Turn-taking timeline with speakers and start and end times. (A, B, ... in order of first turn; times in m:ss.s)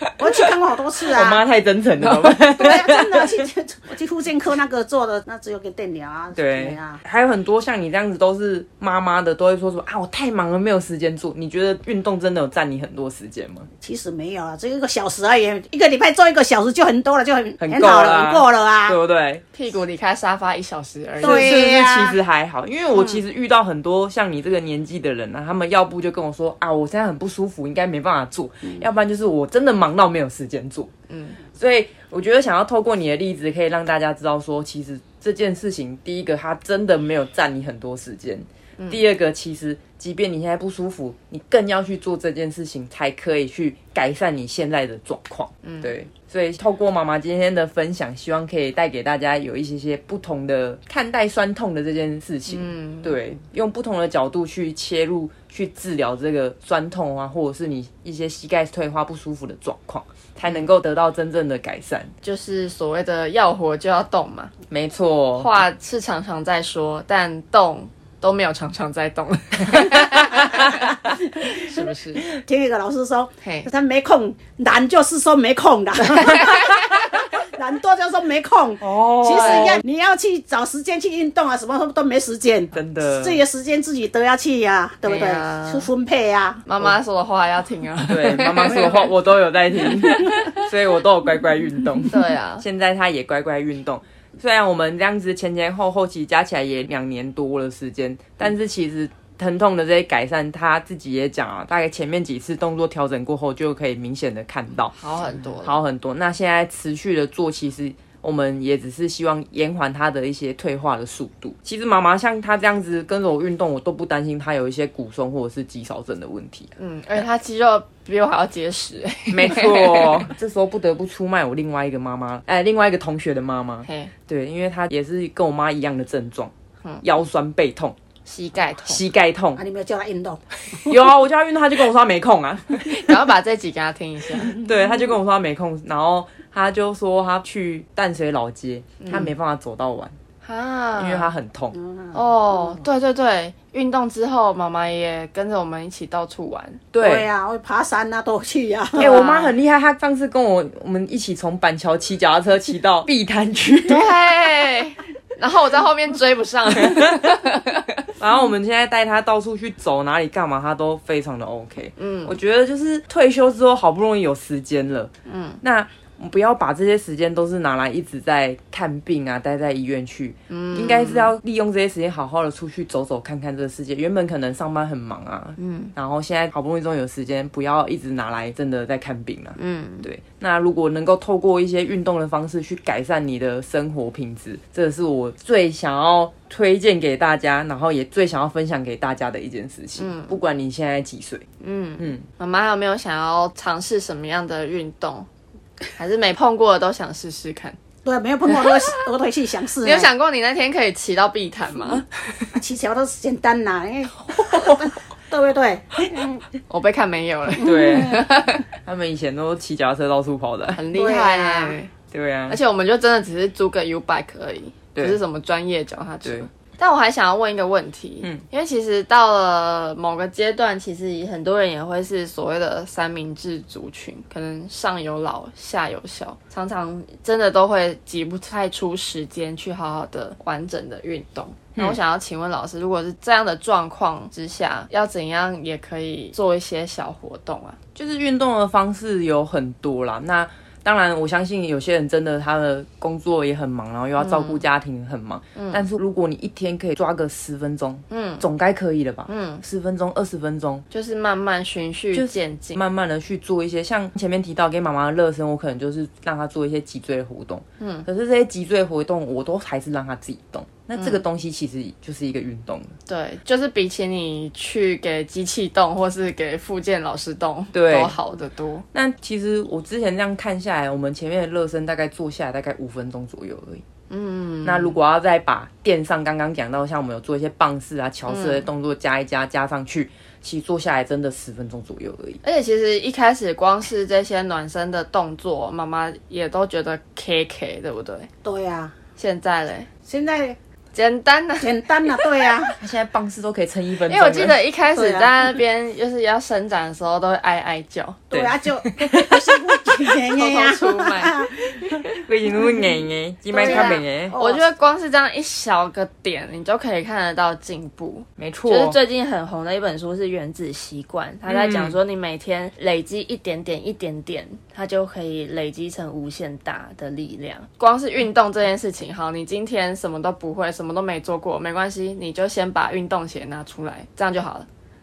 0:00.2-0:01.4 A
0:01.1-0:03.4 B
0:02.0-0:02.4 C
0:02.5-0:07.0 A
0:06.3-0:13.7 B
0:13.8-0:19.0 A
0:17.6-0:19.4 B
0:19.5-0:21.5 C
0:21.2-0:22.2 A
0:21.2-0:30.9 B
0:22.9-0:23.2 A
0:31.1-0:31.4 C
0:31.6-1:02.1 B
0:45.6-0:45.9 C
0:52.5-0:53.2 C
1:02.2-1:04.5 C
1:04.7-1:05.5 B
1:05.4-1:12.2 C
1:10.3-1:26.6 A
1:13.4-1:13.7 C
1:16.1-1:17.0 C
1:18.8-1:19.8 B
1:19.3-1:19.8 C
1:22.7-1:23.4 B
1:25.0-1:25.9 C
1:26.6-1:29.1 C
1:28.1-1:44.9 B
1:29.8-1:30.6 C
1:32.1-1:32.6 C
1:44.9-1:45.8 C
1:45.6-1:56.7 B
1:56.8-2:00.3 C
1:59.3-2:08.0 B
2:03.8-2:04.1 C
2:08.2-2:09.0 C
2:08.8-2:09.6 B
2:09.6-2:10.9 A
2:10.8-2:13.2 B
2:12.8-2:14.6 C
2:14.4-2:20.1 B
2:19.0-2:19.3 C
2:20.4-2:21.3 C
2:21.0-2:21.8 B
2:21.8-2:22.1 A
2:22.1-2:26.8 C
2:26.9-2:27.3 B
2:27.0-2:29.2 A
2:29.0-2:29.5 C
2:29.0-2:34.1 B
2:33.9-2:37.9 C
2:36.8-2:37.3 B
2:38.2-3:11.4 B
2:42.0-2:42.3 C
2:45.2-2:45.6 C
2:50.5-2:51.3 C
2:55.6-2:55.9 C
2:59.6-3:00.1 C
3:10.0-3:10.3 C
3:11.6-3:15.3 C
3:16.0-3:17.8 C
3:18.0-3:20.1 A
3:18.5-3:19.0 C
3:19.8-3:22.1 C
3:22.5-3:26.4 A
3:26.7-3:28.6 C
3:27.6-3:30.8 B
3:27.6-3:28.0 A
3:30.7-3:31.9 C
3:30.9-3:31.8 A
3:32.1-3:32.6 B
3:32.5-3:57.8 C
3:57.9-4:10.8 B
4:04.2-4:04.6 C
4:05.5-4:05.8 C
4:08.1-4:08.4 C
4:09.3-4:09.6 C
4:10.9-4:12.8 C
4:12.1-4:22.9 B
4:17.8-4:18.0 C
4:20.9-4:21.2 C
4:23.1-4:28.8 C
4:27.7-4:28.2 B
4:28.9-4:33.8 B
4:34.1-4:35.0 C
4:34.6-4:42.4 B
4:38.3-4:38.6 C
4:42.4-4:48.3 C
4:48.4-4:48.9 A
4:49.2-4:49.9 C
4:50.0-4:50.6 A
4:50.9-4:52.4 C
4:51.6-4:52.7 A
4:52.8-4:54.6 B
4:54.1-4:58.2 C
4:54.9-4:55.3 A
4:58.3-5:02.2 A
4:58.3-5:00.0 B
5:00.2-5:01.4 C
5:02.2-5:04.4 B
5:03.5-5:24.7 C
5:03.5-5:04.6 A
5:08.4-5:09.0 B
5:11.5-5:12.0 B